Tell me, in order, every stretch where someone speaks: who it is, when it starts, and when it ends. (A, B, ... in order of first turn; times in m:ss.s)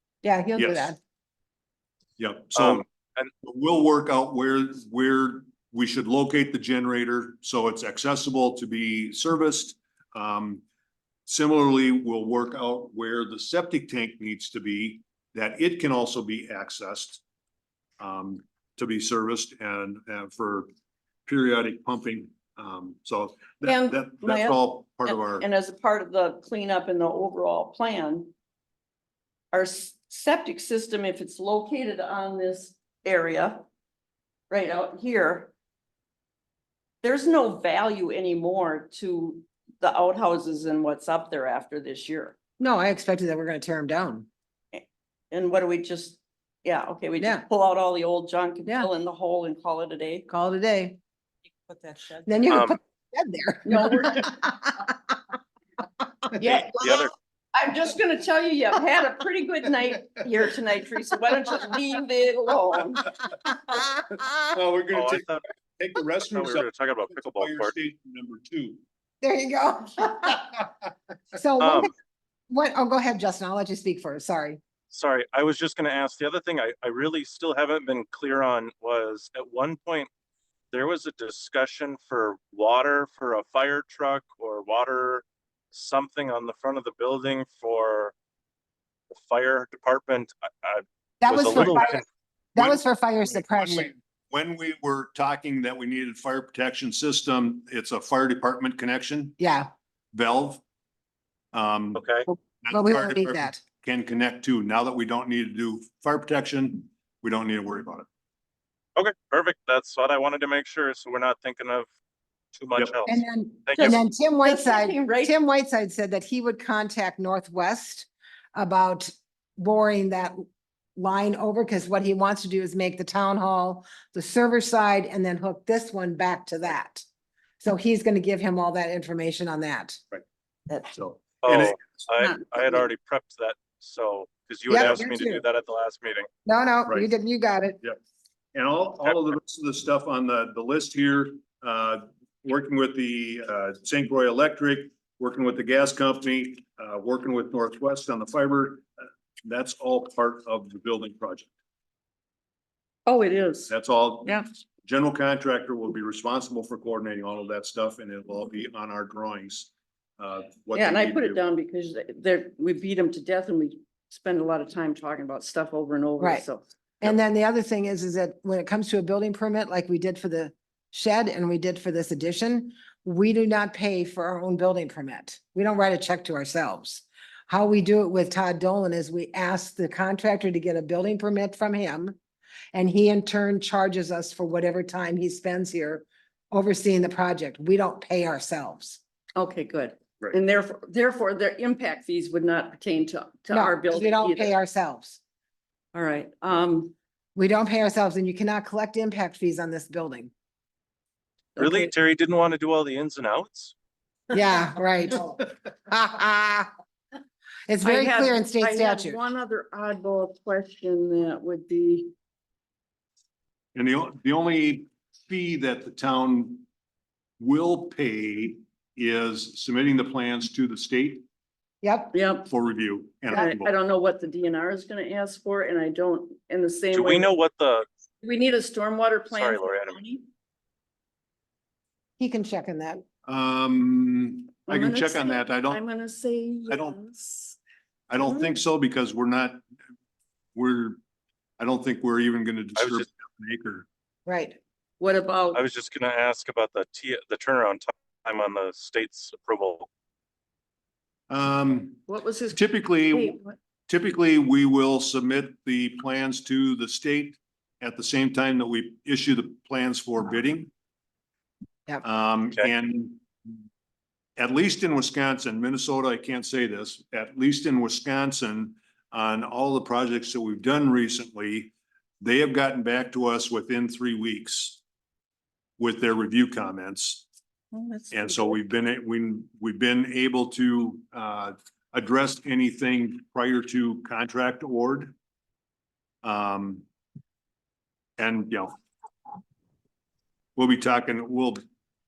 0:00.2-0:01.0 A
0:00.6-0:00.9 B
0:02.2-0:02.8 B
0:02.5-0:03.3 C
0:03.4-0:10.6 B
0:11.3-0:17.2 B
0:18.0-0:20.7 B
0:21.3-0:25.5 B
0:23.6-0:28.3 D
0:29.5-0:33.7 D
0:34.5-0:35.5 D
0:37.0-0:42.4 D
0:42.6-0:44.3 A
0:44.7-0:50.3 D
0:50.3-0:51.0 A
0:52.1-0:55.1 A
0:52.5-0:52.8 C
0:53.6-0:54.3 D
0:56.4-1:03.1 D
0:56.5-0:57.1 C
1:03.7-1:04.2 A
1:04.5-1:08.8 B
1:04.9-1:05.4 C
1:06.3-1:07.7 C
1:09.2-1:10.4 A
1:11.3-1:11.9 A
1:11.6-1:11.9 C
1:12.5-1:14.6 A
1:14.9-1:20.1 C
1:20.7-1:28.1 C
1:29.1-1:32.0 C
1:31.2-1:33.9 A
1:31.6-1:31.9 B
1:32.6-1:39.4 B
1:39.4-1:39.7 A
1:40.1-1:40.6 B
1:41.5-1:42.0 B
1:41.9-1:42.3 C
1:42.3-1:43.6 A
1:42.6-1:48.1 B
1:49.0-1:51.9 C
1:52.5-1:54.0 C
1:52.7-1:53.0 B
1:53.1-2:00.4 A
1:53.8-1:55.3 D
2:01.0-2:07.0 A
2:07.6-2:10.0 A
2:10.9-2:12.0 B
2:11.4-2:16.3 C
2:14.7-2:15.4 A
2:16.4-2:17.8 A
2:18.5-2:28.8 B
2:29.4-2:31.5 B
2:33.0-2:34.4 D
2:33.7-2:41.4 B
2:40.7-2:46.6 D
2:46.2-2:46.4 A
2:47.0-3:02.2 A
3:02.7-3:09.0 A
3:09.4-3:14.5 D
3:13.5-3:15.2 A
3:15.9-3:16.9 D
3:17.4-3:20.3 A
3:21.6-3:21.9 D
3:21.6-3:23.7 C
3:24.3-3:26.7 A
3:27.7-3:29.2 A
3:27.8-3:32.1 D
3:33.7-3:36.6 B
3:37.4-3:41.2 B
3:41.8-3:42.1 A
3:42.1-3:42.5 D
3:42.4-3:43.7 B
3:43.3-3:47.3 D
3:46.9-3:47.9 C
3:48.2-3:50.2 D
3:49.3-3:50.0 C
3:52.2-3:53.0 A
3:53.2-3:55.8 B
3:54.7-3:57.6 D
3:56.7-3:57.0 B
3:58.1-3:59.6 B
3:58.2-3:58.6 D
4:00.5-4:01.0 B
4:01.6-4:03.9 B
4:02.8-4:03.0 C
4:04.2-4:04.6 A
4:05.0-4:05.6 D
4:05.5-4:09.9 C
4:11.3-4:13.4 B
4:12.1-4:13.6 D
4:13.9-4:20.7 B
4:22.0-4:23.2 B
4:24.4-4:34.8 B
4:35.8-4:37.2 B
4:37.7-4:38.6 D
4:38.1-4:45.1 B
4:46.2-4:46.8 B
4:48.2-4:48.8 B
4:50.6-4:51.6 B